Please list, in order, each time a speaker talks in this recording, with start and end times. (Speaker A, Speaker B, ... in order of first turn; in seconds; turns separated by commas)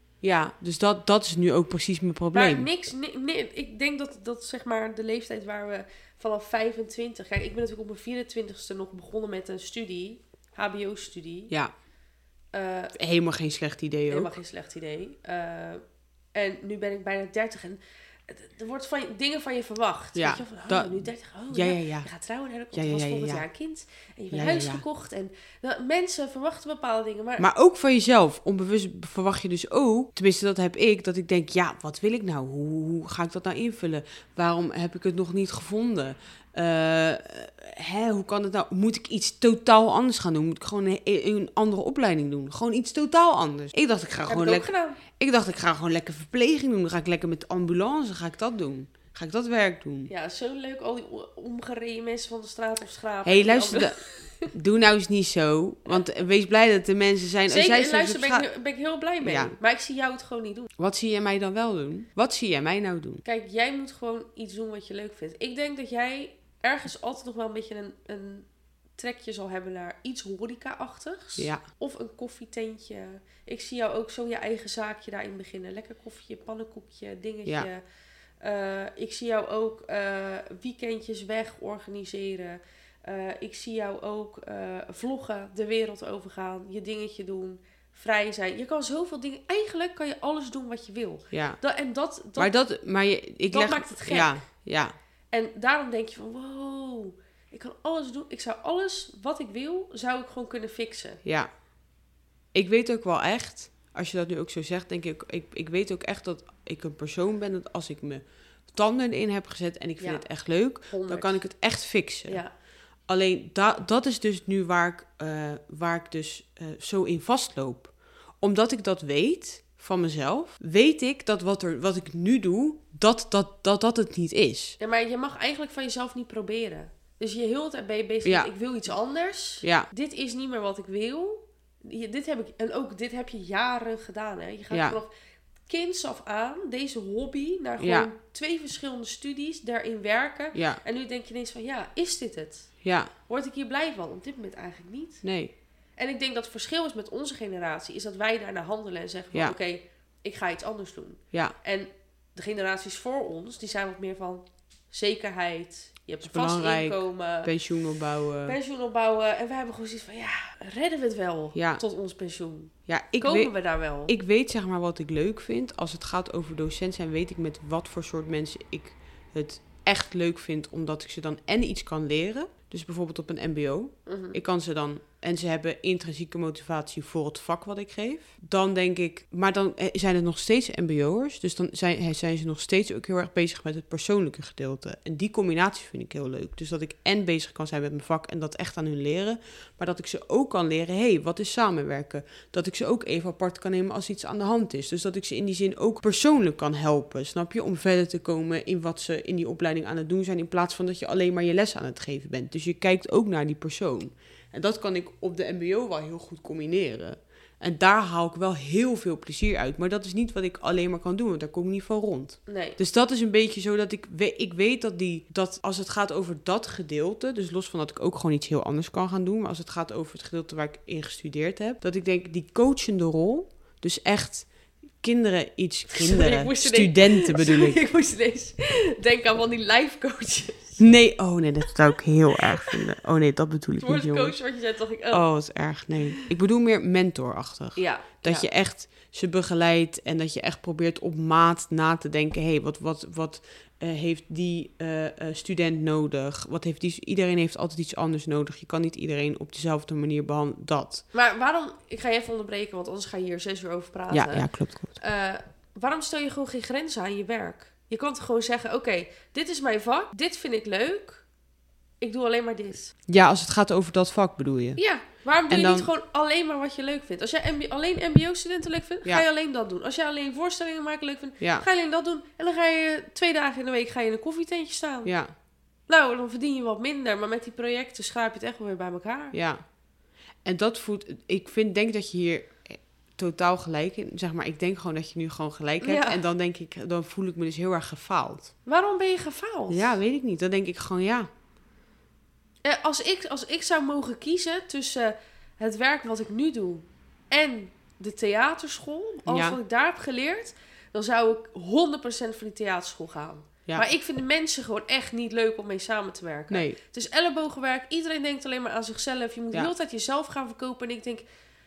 Speaker A: 0.2-2.7, Speaker B: 2.3-11.5, Speaker B: 12.5-12.9, Speaker A: 12.9-14.3, Speaker B: 14.1-15.8, Speaker B: 16.3-27.5, Speaker A: 20.1-22.1, Speaker A: 22.7-23.4, Speaker A: 24.3-24.8, Speaker A: 27.4-50.1, Speaker B: 44.3-45.0, Speaker B: 50.1-54.5, Speaker A: 53.2-54.0, Speaker A: 54.5-58.5, Speaker B: 57.5-60.7, Speaker A: 59.2-59.5, Speaker A: 60.8-63.2, Speaker B: 63.2-77.8, Speaker A: 71.4-71.6, Speaker B: 78.4-92.5, Speaker A: 91.3-91.6, Speaker A: 92.4-94.9, Speaker B: 93.5-94.4, Speaker B: 95.3-101.2, Speaker A: 101.2-101.5, Speaker A: 102.5-112.4, Speaker B: 110.0-110.2, Speaker B: 110.9-111.4, Speaker A: 113.1-124.8, Speaker B: 124.8-135.1, Speaker A: 128.2-128.5, Speaker A: 129.6-129.9, Speaker A: 134.7-135.0, Speaker B: 135.7-142.7, Speaker A: 137.8-138.1, Speaker A: 140.5-140.8, Speaker A: 142.8-143.1, Speaker B: 143.3-145.2, Speaker A: 145.2-145.5, Speaker B: 146.0-157.5, Speaker A: 156.2-158.6, Speaker B: 158.4-164.1, Speaker A: 161.5-161.8, Speaker A: 162.9-163.5, Speaker A: 164.1-224.5, Speaker B: 174.1-174.4, Speaker B: 212.5-212.8, Speaker A: 225.0-227.8, Speaker B: 225.9-230.8, Speaker A: 230.8-234.3, Speaker B: 232.4-232.8, Speaker B: 233.8-235.2, Speaker A: 235.1-251.0, Speaker B: 236.0-236.3, Speaker B: 237.8-238.5, Speaker B: 251.1-261.2, Speaker A: 254.1-254.9, Speaker B: 262.0-262.9, Speaker A: 263.1-264.8, Speaker B: 264.8-275.1, Speaker A: 265.5-265.9, Speaker A: 271.4-271.6, Speaker A: 275.0-275.3, Speaker B: 275.9-279.4, Speaker A: 279.3-279.6, Speaker A: 280.4-288.5, Speaker B: 285.8-286.2, Speaker B: 288.6-290.0, Speaker A: 289.7-291.3, Speaker B: 292.6-311.2, Speaker A: 299.3-299.6, Speaker A: 306.5-306.8